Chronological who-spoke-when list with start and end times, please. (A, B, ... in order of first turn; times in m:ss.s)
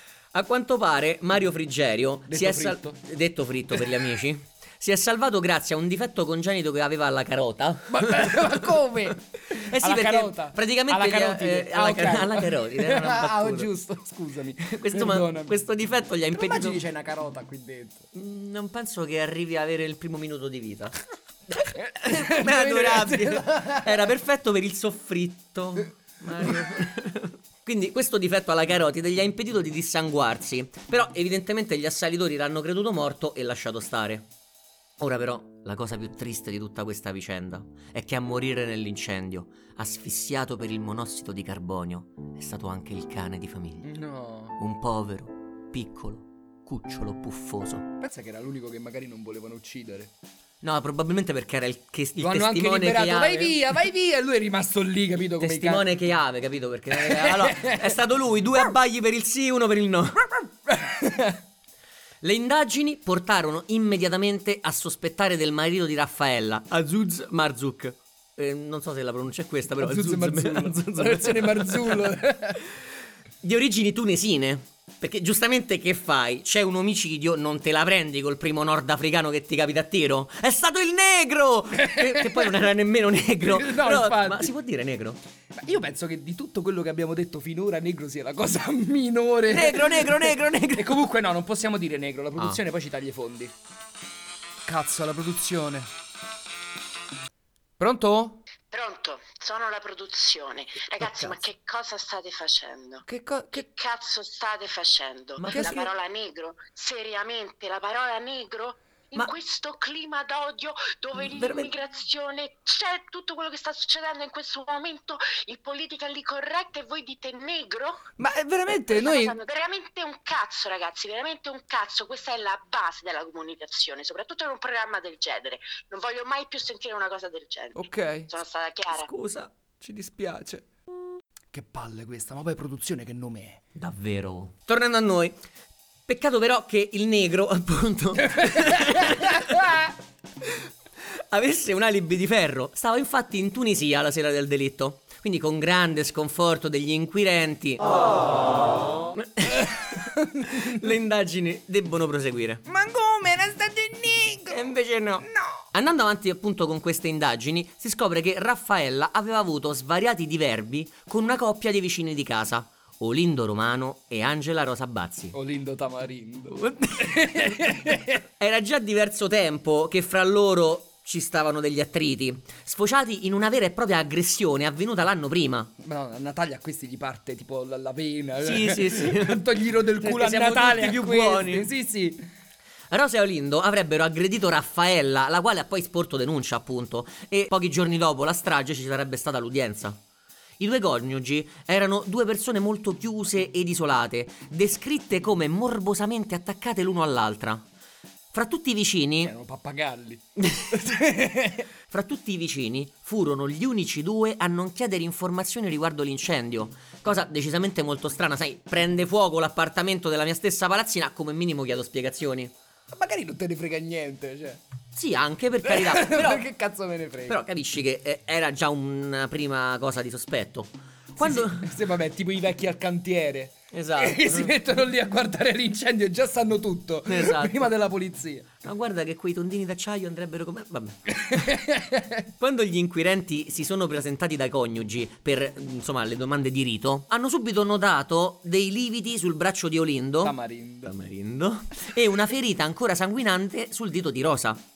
0:00.3-0:13.7 A
0:02.3-0:03.0 B
0:07.9-0:15.6 B
0:14.7-0:16.8 A
0:16.3-0:18.1 B
0:18.1-0:21.0 A
0:21.5-0:34.3 A
0:21.6-0:24.1 B
0:35.0-0:43.9 A
0:43.8-0:44.6 B
0:44.6-0:47.8 A
0:48.0-0:50.1 B
0:50.6-0:53.6 A
0:52.2-0:55.8 B
0:55.4-1:00.4 A
0:56.9-0:58.0 B
1:00.7-1:01.4 B
1:02.2-1:12.1 A
1:09.8-1:12.6 B
1:13.4-1:25.2 A
1:21.7-1:22.6 B
1:23.4-1:24.5 B
1:25.5-1:33.5 B
1:29.5-1:31.0 A
1:34.6-1:35.8 B
1:37.8-1:38.4 B
1:38.7-1:58.1 C
1:41.0-1:41.4 A
1:43.0-1:43.6 B
1:45.4-1:45.9 A
1:45.5-1:45.8 B
1:51.2-1:51.7 A
1:58.2-1:59.4 B
1:58.9-2:09.1 C
2:07.8-2:08.3 B
2:08.9-2:09.5 A
2:09.8-2:10.6 B
2:11.5-2:13.6 B
2:13.8-2:15.4 A
2:16.1-2:19.7 A
2:18.4-2:19.8 B
2:21.0-2:28.1 A
2:29.2-2:32.6 A
2:29.4-2:30.8 B
2:32.7-2:34.6 B
2:34.5-2:45.3 A
2:35.2-2:35.6 B
2:45.3-2:48.2 B
2:46.5-2:55.7 A
2:55.8-3:02.2 B
2:58.4-2:59.5 A
3:00.0-3:01.7 A
3:02.9-3:10.0 A
3:10.6-3:17.6 A
3:18.3-3:19.3 A
3:19.2-3:21.7 B
3:21.9-3:32.5 A
3:32.9-3:34.6 B
3:34.9-3:36.4 A
3:35.6-3:37.4 B
3:37.3-3:41.7 A
3:41.2-3:48.5 B
3:43.7-3:44.6 A
3:47.1-3:47.7 A
3:48.6-3:51.0 A
3:51.2-3:52.2 B
3:52.4-4:04.6 A
4:00.2-4:00.9 B